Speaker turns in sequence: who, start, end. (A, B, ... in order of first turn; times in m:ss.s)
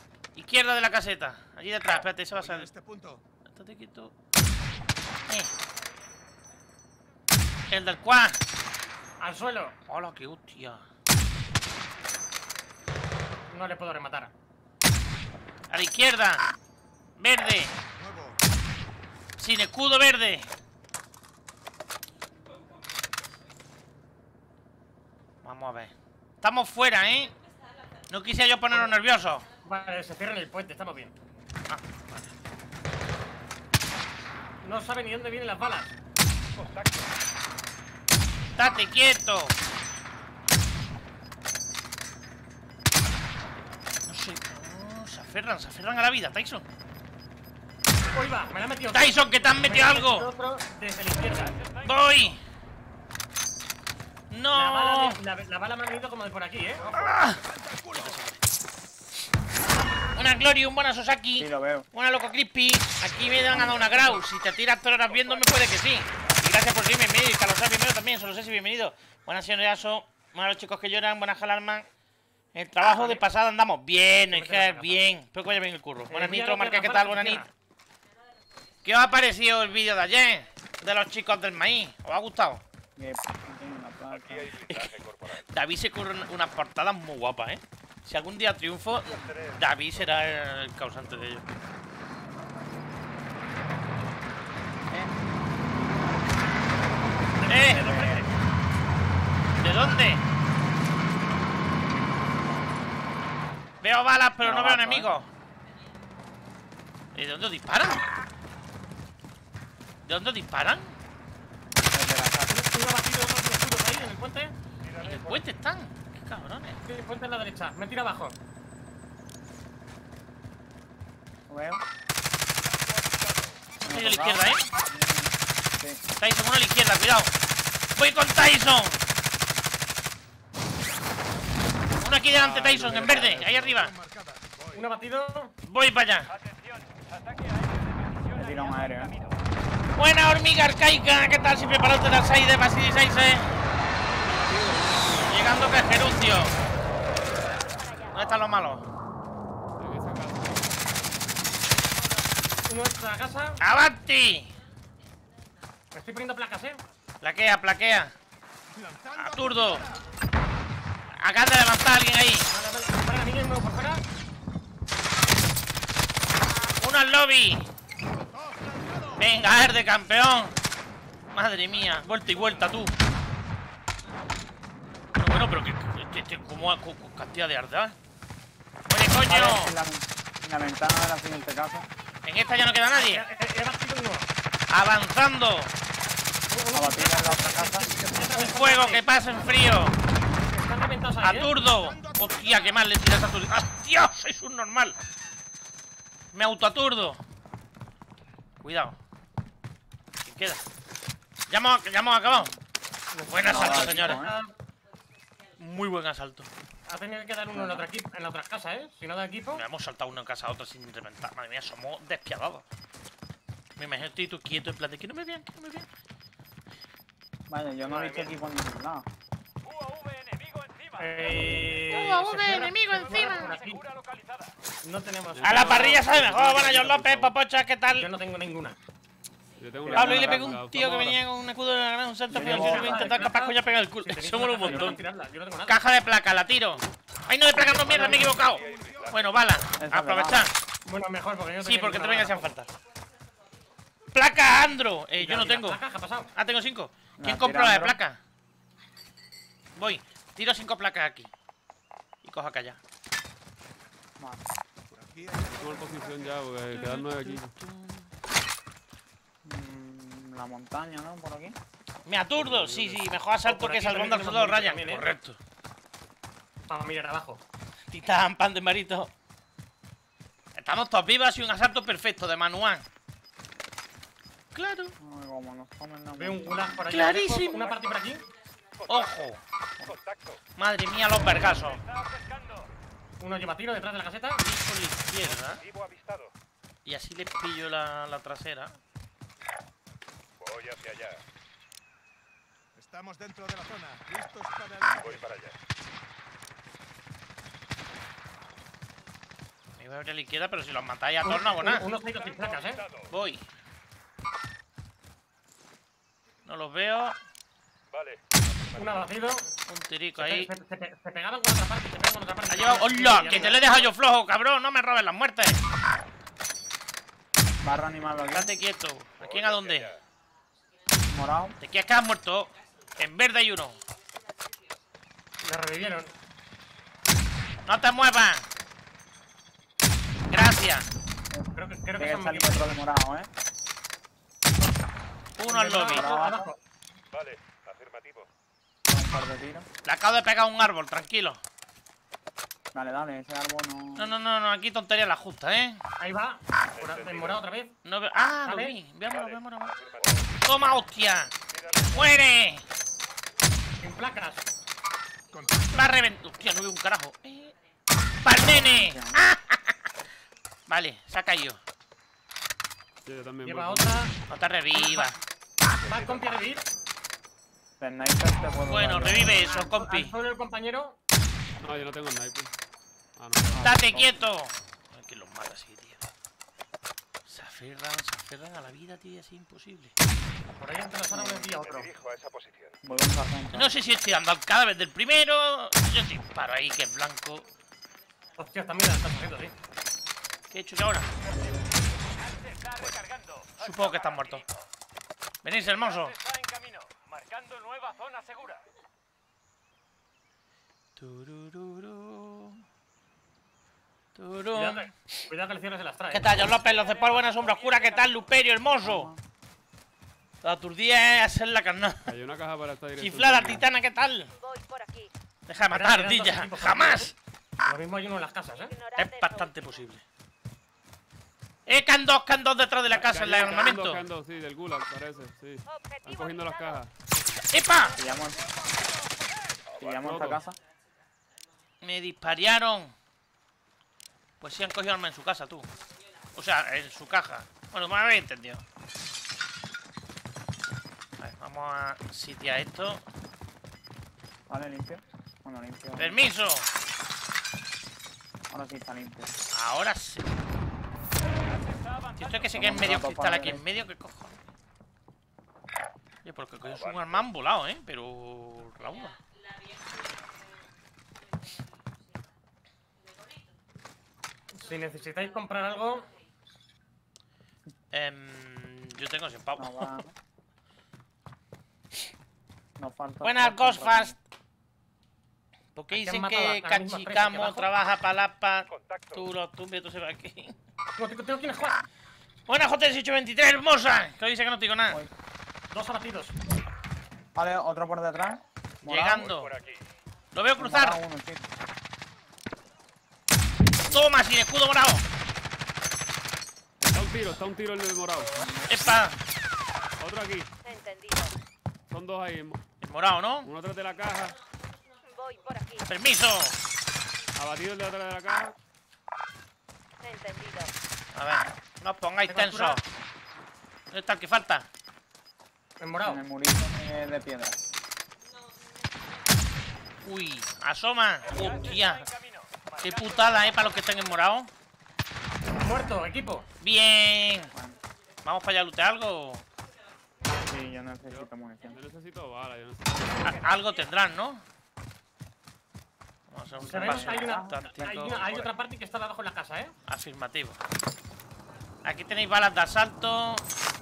0:00.3-0:02.7 A
0:02.3-0:03.2 B
0:03.5-0:04.1 A
0:05.3-0:05.5 A
0:07.7-0:08.4 A
0:09.2-0:09.7 C
0:09.9-0:10.8 A
0:13.5-0:14.3 C
0:15.7-0:16.5 A
0:17.2-0:17.7 A
0:17.9-0:18.4 B
0:19.4-0:20.5 A
0:25.4-0:27.3 A
0:28.1-0:29.4 A
0:29.6-0:31.1 C
0:31.7-0:32.2 A
0:34.6-0:35.9 C
0:38.5-0:39.5 A
0:44.0-0:46.6 A
0:48.1-0:51.6 C
0:48.9-0:50.3 A
0:51.8-0:52.4 A
0:54.3-0:55.2 A
0:54.5-0:56.9 C
0:56.8-0:58.2 B
0:56.9-0:58.4 A
1:00.1-1:11.8 A
1:01.4-1:01.9 D
1:03.5-1:04.2 D
1:12.5-1:17.4 A
1:12.9-1:13.2 C
1:14.3-1:15.1 C
1:16.1-1:17.5 C
1:18.8-1:22.6 A
1:23.0-1:24.6 D
1:24.1-1:25.4 E
1:24.7-1:31.5 A
1:29.2-1:29.6 E
1:34.9-1:35.2 D
1:37.4-1:38.3 C
1:37.5-1:38.3 D
1:37.5-1:38.0 A
1:39.6-1:40.2 A
1:43.8-1:45.3 A
1:44.4-1:45.1 D
1:47.1-1:48.0 A
1:50.0-1:50.9 A
1:51.9-1:52.7 D
1:52.5-1:54.5 C
1:55.0-1:56.8 A
1:56.8-1:58.3 C
2:01.5-2:01.8 D
2:03.8-2:06.0 D
2:03.8-2:04.7 A
2:06.2-2:07.3 A
2:08.0-2:09.0 A
2:12.0-2:13.9 A
2:12.3-2:13.2 F
2:12.8-2:14.9 B
2:12.9-2:13.4 D
2:14.7-2:15.5 C
2:15.6-2:16.3 A
2:18.3-2:19.2 D
2:19.9-2:23.5 A
2:24.2-2:25.4 F
2:25.2-2:26.5 A
2:27.6-2:28.1 G
2:28.1-2:28.8 A
2:29.8-2:30.8 F
2:32.7-2:33.6 C
2:33.6-2:34.5 A
2:35.9-2:36.8 C
2:37.2-2:38.1 A
2:38.7-2:40.0 B
2:39.1-2:39.8 A
2:41.2-2:42.5 A
2:42.5-2:44.0 C
2:46.8-2:47.7 A
2:48.1-2:49.3 B
2:49.2-2:50.6 A
2:51.3-2:52.9 A
2:55.2-2:58.0 A
2:58.9-2:59.7 A
2:59.3-3:01.9 D
3:02.2-3:03.2 A
3:02.9-3:04.3 C
3:04.7-3:05.7 A
3:06.5-3:09.0 C
3:06.7-3:07.9 D
3:08.3-3:10.0 A
3:10.4-3:11.5 C
3:11.2-3:15.0 A
3:11.5-3:12.9 B
3:16.3-3:17.2 A
3:18.6-3:19.0 A
3:20.2-3:20.6 A
3:21.5-3:22.5 A
3:22.3-3:22.5 D
3:23.1-3:24.5 C
3:23.3-3:24.3 A
3:23.4-3:24.3 D
3:25.6-3:26.5 A
3:26.9-3:29.6 C
3:27.5-3:27.9 D
3:29.5-3:32.6 A
3:33.8-3:35.9 A
3:37.5-3:39.0 D
3:37.8-3:38.3 C
3:41.0-3:43.8 C
3:41.9-3:43.6 A
3:44.8-3:46.4 C
3:45.3-3:47.3 F
3:45.4-3:48.1 A
3:48.0-3:48.8 C
3:49.6-3:51.2 F
3:49.8-3:50.6 D
3:49.9-3:55.0 A
3:52.3-3:53.2 D
3:52.4-3:55.8 C
3:54.6-3:55.0 D
3:55.7-4:00.5 A
3:57.5-3:58.4 C
3:57.8-3:59.2 B
3:58.4-3:59.2 E
3:59.8-4:00.5 D
4:00.8-4:02.5 C
4:01.6-4:02.7 A
4:04.1-4:05.8 A
4:05.2-4:06.3 C
4:06.3-4:08.2 A
4:07.2-4:08.0 D
4:09.8-4:11.3 A
4:12.2-4:12.8 A
4:14.2-4:14.4 D
4:14.9-4:16.5 B
4:15.5-4:17.5 F
4:16.7-4:18.1 A
4:19.4-4:21.6 D
4:22.0-4:25.4 A
4:22.4-4:23.1 F
4:23.4-4:25.1 C
4:26.7-4:27.4 C
4:27.9-4:29.1 A
4:30.6-4:32.8 A
4:34.5-4:34.9 A
4:35.0-4:36.9 D
4:36.2-4:38.2 C
4:36.9-4:37.7 A
4:38.9-4:39.4 A
4:39.8-4:40.4 E
4:40.6-4:41.8 A
4:43.2-4:44.4 C
4:44.4-4:45.6 A
4:45.4-4:46.3 E
4:46.8-4:48.8 A
4:50.4-4:51.2 E
4:52.7-4:55.3 B
4:55.0-4:55.5 E
4:59.8-5:01.9 A
5:01.2-5:02.8 C
5:02.1-5:03.1 E
5:03.1-5:03.4 A
5:06.4-5:07.2 A
5:07.9-5:09.1 E
5:08.7-5:09.5 C
5:09.7-5:10.5 A
5:10.2-5:13.6 C
5:12.5-5:15.6 A
5:17.6-5:18.5 D
5:18.3-5:19.9 A
5:19.2-5:20.0 E
5:21.1-5:21.6 D
5:21.6-5:23.8 A
5:25.4-5:26.1 C
5:27.6-5:28.5 A
5:30.3-5:30.9 A
5:31.5-5:32.8 C
5:32.0-5:33.3 D
5:35.4-5:36.1 A
5:35.5-5:36.6 C
5:35.8-5:36.4 D
5:37.1-5:38.3 E
5:38.9-5:39.6 D
5:39.8-5:41.4 A
5:42.7-5:44.1 D
5:44.0-5:45.8 A
5:46.0-5:47.7 C
5:46.8-5:47.4 E
5:47.8-5:49.8 A
5:48.4-5:48.7 C
5:49.9-5:50.3 E
5:50.3-5:51.3 A
5:51.5-5:51.9 E
5:51.9-5:52.6 A
5:53.8-5:54.5 C
5:55.3-5:56.0 B
5:55.7-5:57.6 A
5:58.2-5:59.8 A
5:58.4-5:59.2 D
6:00.7-6:01.6 A
6:03.0-6:04.2 F
6:03.4-6:04.1 C
6:04.3-6:05.2 A
6:04.8-6:05.1 C
6:05.7-6:06.6 C
6:07.8-6:09.6 D
6:08.6-6:10.1 A
6:09.5-6:11.0 C
6:11.6-6:12.5 F
6:13.2-6:13.8 F
6:13.5-6:14.3 D
6:13.6-6:16.0 A
6:17.2-6:19.9 A
6:20.6-6:21.9 C
6:21.1-6:21.5 D
6:21.6-6:22.8 E
6:22.8-6:23.7 D
6:23.5-6:27.5 A
6:28.4-6:29.5 C
6:30.5-6:31.1 A
6:33.6-6:34.4 A
6:35.4-6:36.2 A
6:41.0-6:42.6 A
6:44.1-6:45.2 A
6:44.5-6:46.4 C
6:46.1-6:49.1 A
6:48.8-6:49.2 D
6:50.4-6:52.1 A
6:52.0-6:53.6 F
6:53.0-6:54.3 A
6:54.3-6:55.1 G
6:55.5-6:57.1 A
6:55.7-6:57.1 C
6:57.6-6:58.7 C
6:58.6-6:59.8 G
6:59.0-7:00.0 A
7:01.7-7:04.0 A
7:02.9-7:06.9 F
7:05.6-7:06.8 G
7:07.3-7:08.0 A
7:08.0-7:08.4 D
7:09.8-7:10.6 D
7:10.0-7:10.4 F
7:11.8-7:12.9 A
7:14.4-7:15.7 A
7:16.3-7:18.6 A
7:21.2-7:23.0 A
7:24.5-7:26.2 D
7:26.0-7:26.7 A
7:28.5-7:29.3 D
7:29.5-7:30.3 A
7:32.2-7:34.4 A
7:32.5-7:33.6 D
7:36.2-7:39.2 A
7:44.5-7:46.1 C
7:47.9-7:50.0 A
7:49.6-7:50.1 D
7:52.8-7:54.1 D
7:53.2-7:54.1 A
7:55.7-8:00.6 A
7:55.9-7:57.7 C
7:58.7-7:59.2 E
8:01.0-8:01.8 C
8:02.5-8:05.0 A
8:05.7-8:06.4 C
8:07.3-8:09.3 D
8:08.8-8:09.5 A
8:09.3-8:09.7 E
8:10.3-8:11.0 A
8:10.6-8:11.4 D
8:13.8-8:15.0 A
8:16.8-8:18.3 F
8:18.4-8:18.7 D
8:18.7-8:19.2 A
8:20.0-8:20.5 F
8:20.6-8:21.3 G
8:21.9-8:22.6 F
8:22.8-8:23.5 A
8:23.4-8:24.4 F
8:25.0-8:25.9 G
8:25.9-8:26.6 A
8:27.4-8:28.5 F
8:30.0-8:30.7 G
8:31.1-8:32.8 A
8:32.3-8:32.8 C
8:33.9-8:34.7 A
8:35.8-8:36.2 C
8:36.0-8:37.6 D
8:40.0-8:42.1 A
8:42.8-8:44.5 A
8:45.6-8:46.5 C
8:46.6-8:47.5 A
8:47.5-8:47.8 D
8:48.2-8:49.4 A
8:50.4-8:51.8 D
8:51.1-8:53.2 F
8:53.2-8:54.4 A
8:56.3-8:58.5 A
8:56.6-8:58.1 D
8:56.6-8:59.7 C
8:59.9-9:00.6 A
9:01.8-9:03.4 A